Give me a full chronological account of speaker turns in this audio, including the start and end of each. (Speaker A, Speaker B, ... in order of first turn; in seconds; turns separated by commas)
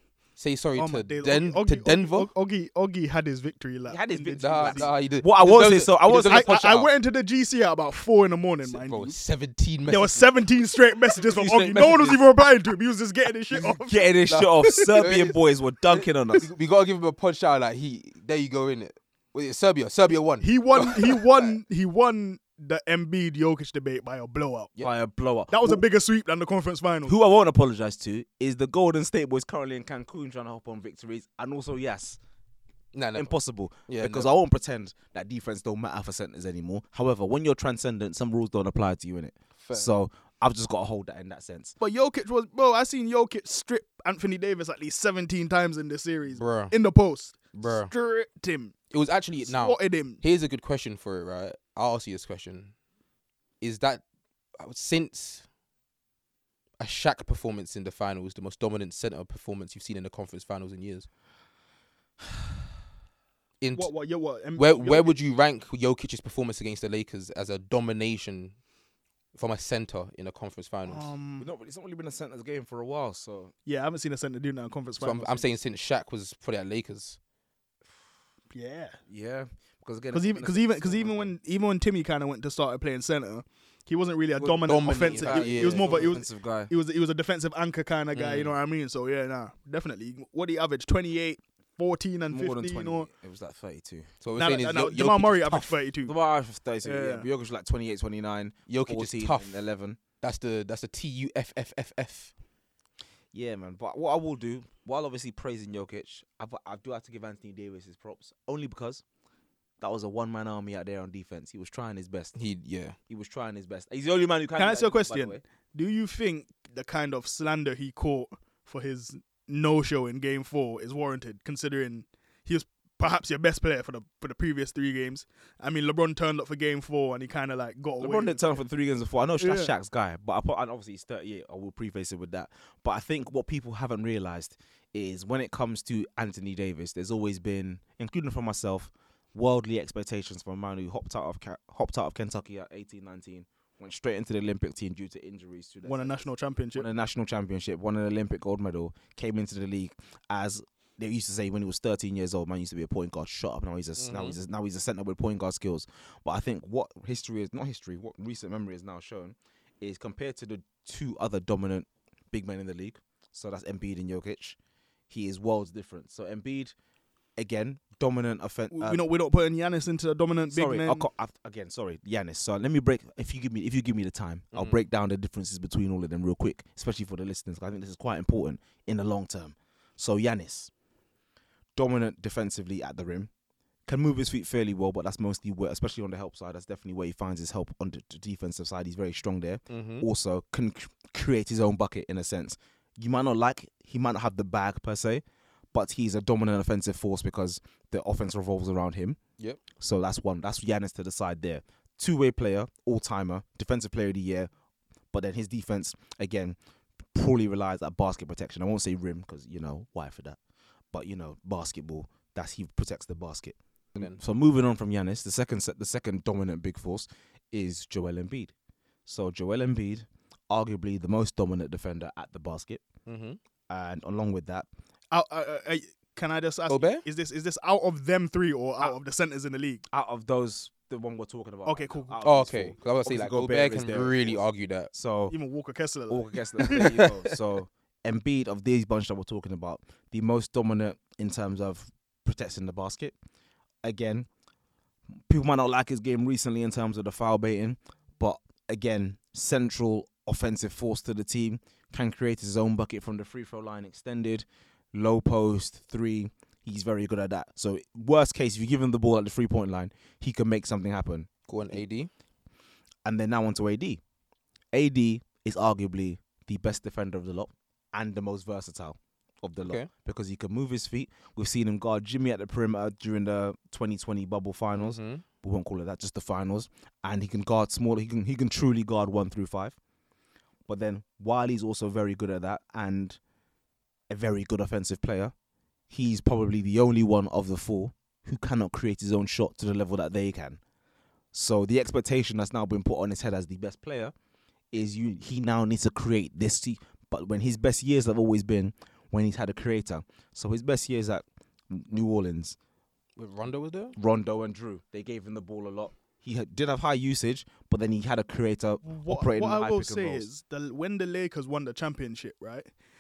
Speaker A: 0.4-2.3, Speaker B: 0.8-4.9, Speaker C: 3.9-6.5, Speaker A: 4.4-6.9, Speaker B: 6.2-9.2, Speaker A: 8.6-10.3, Speaker B: 9.9-14.1, Speaker C: 11.2-12.2, Speaker C: 13.5-16.5, Speaker A: 14.3-15.4, Speaker A: 15.9-21.6, Speaker B: 20.4-24.7, Speaker C: 24.8-25.8, Speaker B: 25.5-27.1, Speaker C: 27.1-32.2, Speaker A: 32.9-33.4, Speaker C: 33.2-41.8, Speaker A: 33.9-34.3, Speaker A: 39.6-39.9, Speaker B: 41.8-48.7, Speaker A: 46.3-46.8, Speaker A: 47.5-47.9, Speaker A: 48.9-52.7, Speaker B: 49.5-50.2, Speaker A: 53.6-54.0, Speaker A: 54.6-55.5, Speaker A: 56.8-61.1, Speaker A: 63.6-63.9, Speaker B: 63.7-65.2, Speaker A: 64.6-68.5, Speaker A: 69.3-71.1, Speaker B: 70.9-71.5, Speaker C: 71.4-73.5, Speaker B: 73.7-75.4, Speaker A: 75.0-77.2, Speaker B: 78.5-79.0, Speaker C: 79.1-81.4, Speaker B: 80.1-93.1, Speaker A: 84.4-86.2, Speaker C: 84.9-86.7, Speaker A: 88.1-88.6, Speaker C: 92.3-94.1, Speaker A: 94.2-95.8, Speaker B: 94.3-96.1, Speaker C: 96.1-100.0, Speaker B: 96.8-97.3, Speaker A: 98.7-99.6, Speaker A: 100.2-102.3, Speaker C: 103.3-109.0, Speaker C: 109.8-112.3, Speaker A: 112.3-113.0, Speaker C: 113.1-115.4, Speaker B: 114.6-128.5, Speaker C: 128.0-164.6, Speaker B: 129.4-129.7, Speaker B: 145.8-146.9, Speaker A: 154.0-154.4, Speaker C: 165.1-166.7, Speaker C: 167.4-169.0, Speaker B: 168.7-171.1, Speaker C: 170.5-180.7, Speaker C: 181.8-183.3, Speaker C: 183.9-195.2, Speaker A: 189.7-190.1, Speaker C: 195.7-199.2, Speaker C: 199.8-204.5, Speaker C: 205.1-206.6, Speaker C: 207.1-210.4, Speaker C: 210.9-218.5, Speaker C: 219.1-222.9, Speaker A: 223.1-223.4, Speaker C: 223.7-224.7, Speaker B: 225.1-229.8, Speaker A: 226.7-227.0, Speaker C: 229.9-235.3, Speaker B: 231.7-232.2, Speaker A: 232.2-234.9, Speaker B: 235.3-237.0, Speaker C: 236.1-243.2, Speaker A: 236.6-237.3, Speaker C: 243.8-244.3, Speaker C: 245.3-261.8, Speaker A: 261.5-262.1, Speaker C: 263.1-264.0, Speaker C: 264.7-279.8, Speaker A: 269.6-269.9, Speaker A: 274.8-275.2, Speaker C: 280.7-283.2, Speaker C: 284.1-285.3, Speaker C: 285.9-290.6, Speaker C: 291.3-294.1, Speaker C: 294.7-302.6, Speaker A: 303.2-304.0, Speaker C: 304.0-310.3, Speaker B: 308.8-312.7